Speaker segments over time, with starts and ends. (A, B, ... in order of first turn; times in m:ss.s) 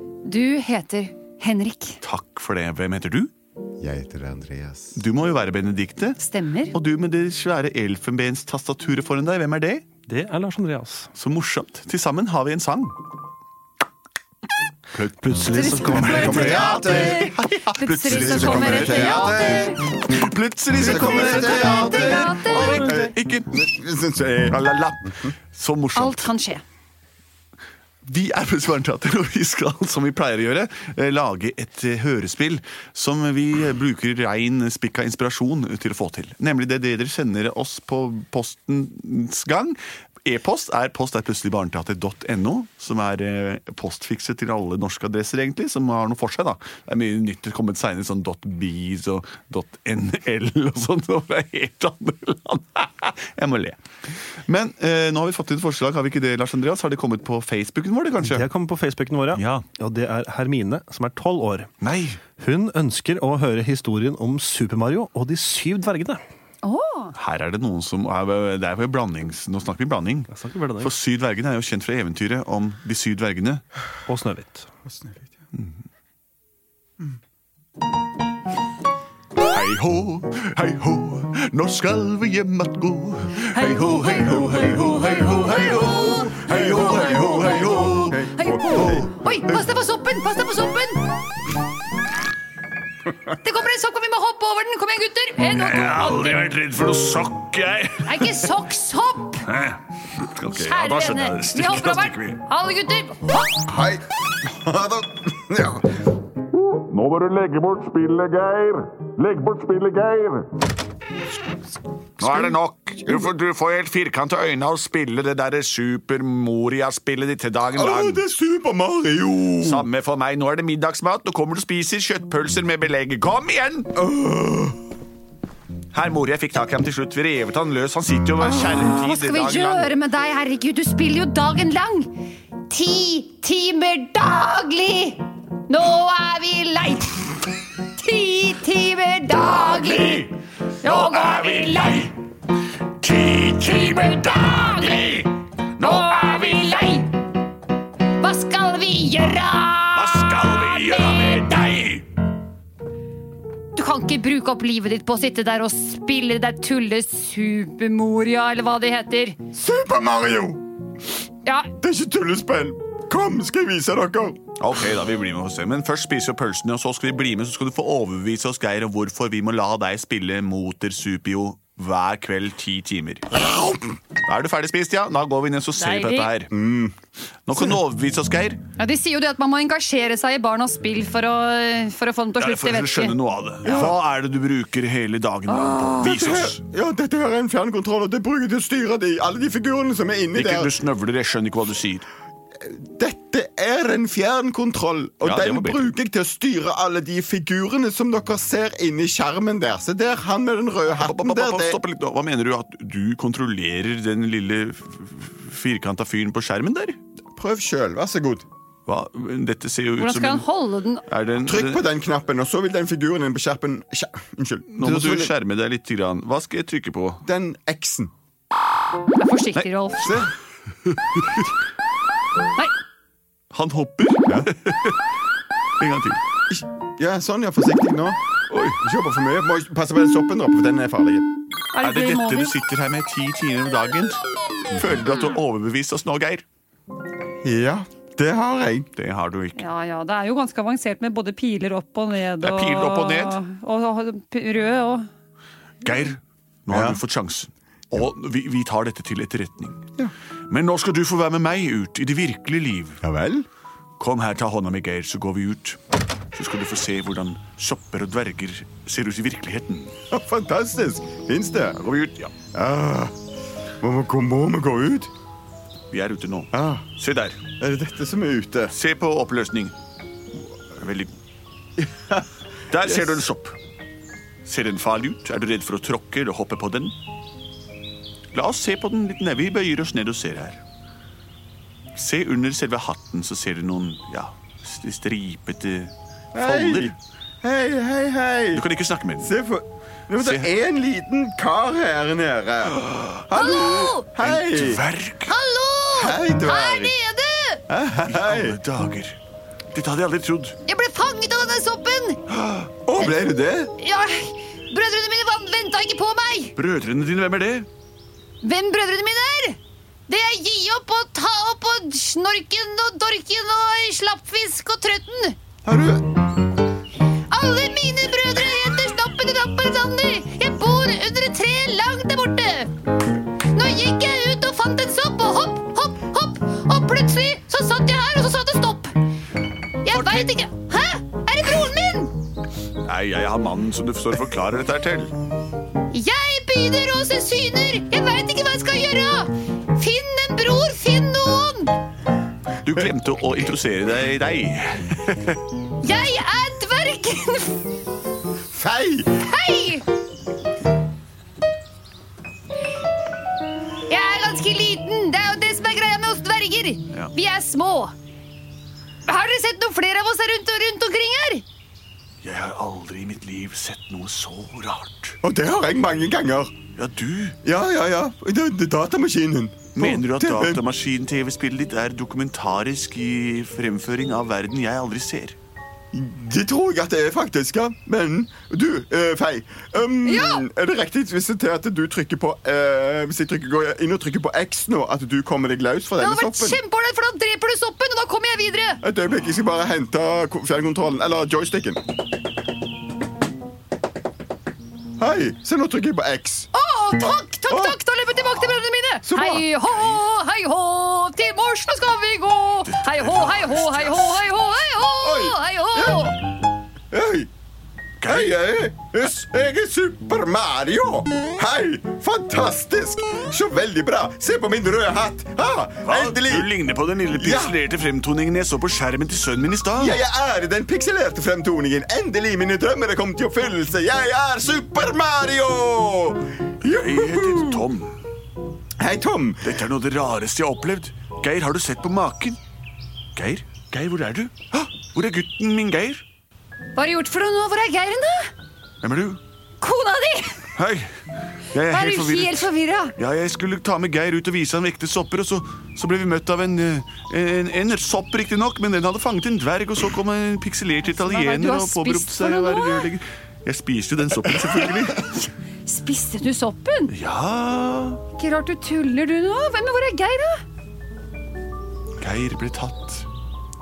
0:00.3-0:02.0 A
0:02.0-0:03.3 B
0:03.8-0:05.0 C
0:05.0-0:06.2 B
0:06.2-0:06.8 A
0:06.7-0:09.8 B
0:10.1-0:11.1 D
0:11.2-0:13.0 B
0:15.0-0:23.6 B
0:15.1-0:16.8 D
0:15.5-0:19.8 A
0:16.0-0:17.4 C
0:18.0-0:19.8 C
0:20.8-0:24.6 C
0:21.2-0:23.0 A
0:24.5-0:26.3 B
0:26.0-0:26.6 A
0:28.0-0:53.8 B
0:54.5-0:58.5 B
0:58.2-1:01.7 D
0:59.3-0:59.6 B
1:01.8-1:02.2 B
1:02.3-1:06.2 D
1:06.6-1:07.1 A
1:07.2-1:13.6 B
1:10.3-1:10.9 D
1:14.1-1:14.7 D
1:14.9-1:15.3 C
1:19.4-1:29.1 B
1:23.6-1:31.0 A
1:28.0-1:29.1 C
1:33.4-1:36.4 A
1:35.5-1:38.5 B
1:38.0-1:39.5 A
1:39.4-1:42.4 B
1:40.5-1:43.6 A
1:43.6-1:45.9 C
1:46.6-1:50.5 B
1:52.2-1:58.2 B
1:52.2-1:52.5 C
1:57.7-1:59.9 C
1:59.6-2:03.9 B
2:04.0-2:04.8 C
2:05.9-2:09.9 B
2:08.6-2:12.1 A
2:12.7-2:20.3 A
2:19.6-2:20.3 B
2:20.8-2:22.1 A
2:20.8-2:22.1 B
2:23.0-2:26.8 B
2:23.8-2:25.2 A
2:25.8-2:27.2 A
2:28.2-2:31.6 A
2:30.0-2:32.0 B
2:33.8-2:39.4 A
2:39.5-2:40.6 C
2:41.4-2:41.7 A
2:41.8-2:44.4 C
2:44.6-2:53.4 B
2:53.3-2:53.9 C
2:54.2-2:56.5 B
2:55.8-2:56.3 A
2:56.5-2:56.9 C
2:57.5-2:58.6 B
2:58.8-3:03.2 A
3:02.4-3:06.6 B
3:03.6-3:04.0 C
3:05.5-3:06.2 A
3:06.0-3:10.7 C
3:10.3-3:12.1 B
3:12.6-3:21.8 C
3:15.2-3:15.9 B
3:21.0-3:27.0 B
3:27.4-3:28.4 C
3:28.9-3:30.5 B
3:30.0-3:31.0 A
3:31.1-3:31.8 B
3:31.4-3:35.3 C
3:34.7-3:37.2 B
3:37.2-3:38.1 C
3:39.2-3:40.2 A
3:39.5-3:40.2 B
3:40.0-3:40.3 C
3:43.5-3:45.0 B
3:45.8-3:46.2 B
3:46.5-3:48.2 C
3:48.5-3:48.8 B
3:48.8-3:51.3 C
3:51.7-3:52.6 A
3:51.8-3:54.2 B
3:54.7-3:56.4 B
3:57.4-3:58.9 C
3:59.0-3:59.6 B
3:59.6-4:05.1 A
4:02.4-4:03.4 B
4:05.8-4:09.9 B
4:06.7-4:07.0 C
4:10.5-4:13.0 B
4:13.0-4:13.5 C
4:14.0-4:15.8 B
4:16.3-4:19.9 B
4:20.1-4:21.8 C
4:21.7-4:22.3 B
4:22.5-4:23.1 C
4:23.8-4:25.1 C
4:25.9-4:27.4 B
4:26.5-4:26.8 C
4:27.6-4:28.7 C
4:28.7-4:29.7 B
4:30.7-4:31.1 B
4:31.8-4:32.3 C
4:32.7-4:33.6 B
4:32.8-4:33.2 C
4:34.4-4:37.0 B
4:38.3-4:40.6 B
4:42.0-4:47.0 B
4:46.3-4:48.6 C
4:48.5-4:49.3 B
4:49.2-4:54.8 C
4:50.2-4:50.5 B
4:53.3-4:54.1 A
4:54.2-4:55.4 B
4:55.3-4:57.6 A
4:56.0-4:56.9 C
4:57.7-4:58.6 C
4:58.1-4:59.2 B
4:59.7-5:00.6 B
5:00.7-5:02.2 A
5:02.4-5:02.7 B
5:02.9-5:03.7 C
5:03.8-5:06.6 A
5:06.6-5:07.7 B
5:08.4-5:15.4 A
5:15.6-5:16.1 C
5:17.3-5:22.7 A
5:23.5-5:29.0 A
5:29.8-5:32.1 A
5:29.9-5:30.3 B
5:32.8-5:35.1 B
5:35.9-5:41.8 A
5:42.6-5:45.4 B
5:45.8-5:47.6 A
5:48.5-5:49.2 C
5:49.2-5:49.8 A
5:53.9-5:57.9 A
5:59.1-6:01.4 A
6:02.2-6:05.2 B
6:05.2-6:06.5 C
6:06.8-6:07.4 B
6:07.4-6:10.6 C
6:09.8-6:15.4 B
6:15.9-6:26.6 C
6:20.0-6:20.5 A
6:26.0-6:28.8 A
6:28.8-6:31.8 C
6:35.0-6:36.5 C
6:36.5-6:46.2 A
6:37.5-6:37.8 C
6:39.0-6:39.4 C
6:42.6-6:44.3 B
6:45.0-6:46.2 C
6:46.9-6:47.3 C
6:48.0-6:48.4 B
6:48.0-6:56.5 C
6:55.8-7:00.0 B
6:57.1-6:57.6 C
6:59.8-7:07.7 C
7:06.6-7:07.9 B
7:08.8-7:09.5 C
7:09.4-7:12.4 B
7:13.2-7:16.0 B
7:16.8-7:18.3 A
7:18.8-7:19.2 B
7:19.6-7:20.4 A
7:20.6-7:20.9 B
7:21.5-7:35.3 B
7:21.7-7:23.0 A
7:30.8-7:32.9 A
7:35.7-7:36.9 A
7:36.9-7:38.0 B
7:38.2-7:40.4 A
7:42.0-7:43.1 B